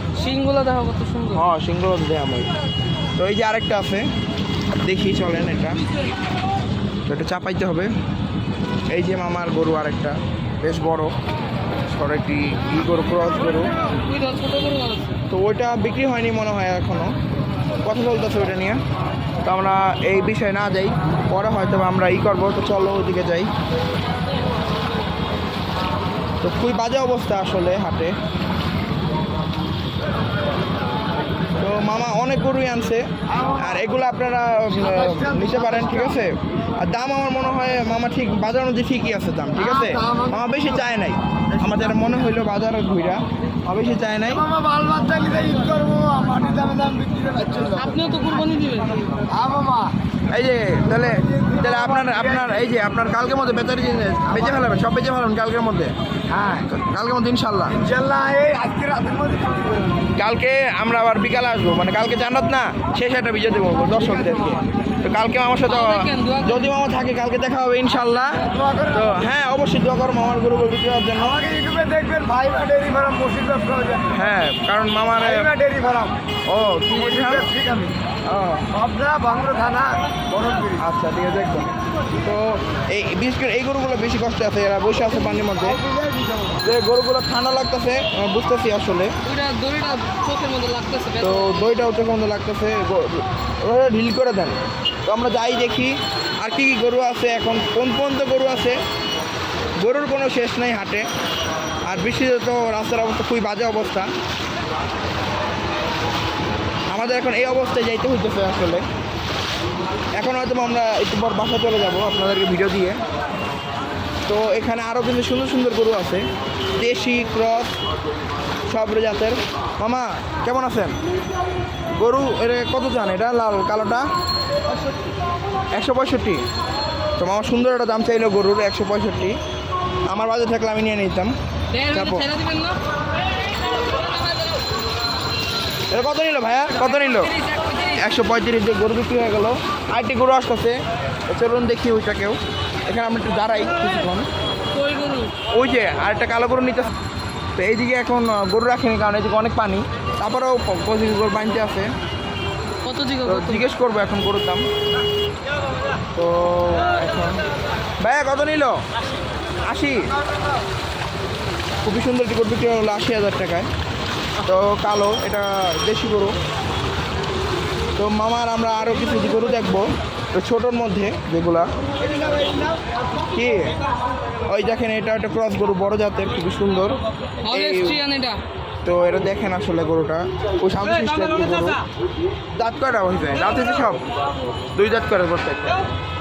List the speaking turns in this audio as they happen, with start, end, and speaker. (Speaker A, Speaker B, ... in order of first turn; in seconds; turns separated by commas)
Speaker A: 0.1-1.4, Speaker B: 1.3-2.5, Speaker B: 3.2-4.0, Speaker B: 4.8-5.8, Speaker B: 7.1-7.9, Speaker B: 8.9-11.1, Speaker B: 11.8-13.7, Speaker A: 13.9-15.2, Speaker B: 15.3-17.1, Speaker B: 17.8-18.8, Speaker B: 19.4-23.5, Speaker B: 26.4-28.1, Speaker B: 31.6-33.0, Speaker C: 33.3-33.8, Speaker B: 33.6-44.4, Speaker C: 34.7-36.2, Speaker C: 39.5-40.6, Speaker C: 41.6-42.1, Speaker C: 44.2-48.1, Speaker A: 47.8-49.2, Speaker C: 49.2-49.9, Speaker B: 50.3-55.9, Speaker C: 51.0-52.7, Speaker C: 54.3-54.6, Speaker C: 56.3-56.7, Speaker B: 56.7-57.8, Speaker C: 57.7-60.0, Speaker B: 60.1-71.4, Speaker C: 63.9-64.7, Speaker A: 65.7-66.7, Speaker C: 68.3-69.3, Speaker C: 71.2-74.2, Speaker B: 74.1-75.5, Speaker C: 75.2-76.2, Speaker B: 76.5-77.5, Speaker C: 76.9-78.0, Speaker B: 78.3-78.7, Speaker C: 78.7-80.8, Speaker B: 80.8-85.8, Speaker C: 85.6-86.6, Speaker B: 86.6-89.1, Speaker A: 89.2-91.6, Speaker B: 91.2-94.5, Speaker B: 95.1-98.8, Speaker B: 99.8-101.0, Speaker B: 101.9-104.1, Speaker B: 106.9-108.8, Speaker B: 110.2-113.0, Speaker B: 114.3-116.2, Speaker B: 116.8-117.7, Speaker B: 118.7-120.9, Speaker B: 121.9-124.1, Speaker B: 125.7-126.4, Speaker B: 127.2-129.4, Speaker B: 130.1-131.3, Speaker A: 131.7-132.8, Speaker B: 131.9-132.3, Speaker B: 135.9-137.3, Speaker A: 137.0-138.0, Speaker B: 137.9-144.3, Speaker A: 144.7-145.3, Speaker B: 145.5-146.9, Speaker B: 147.6-151.9, Speaker A: 152.8-153.6, Speaker B: 153.2-154.6, Speaker B: 156.1-157.4, Speaker B: 158.0-158.8, Speaker B: 159.7-160.1, Speaker B: 161.8-163.7, Speaker B: 164.4-166.3, Speaker B: 168.0-171.7, Speaker B: 173.3-173.7, Speaker B: 174.4-177.0, Speaker A: 177.4-178.4, Speaker B: 177.5-178.0, Speaker B: 178.8-181.8, Speaker B: 182.5-184.0, Speaker B: 184.7-185.8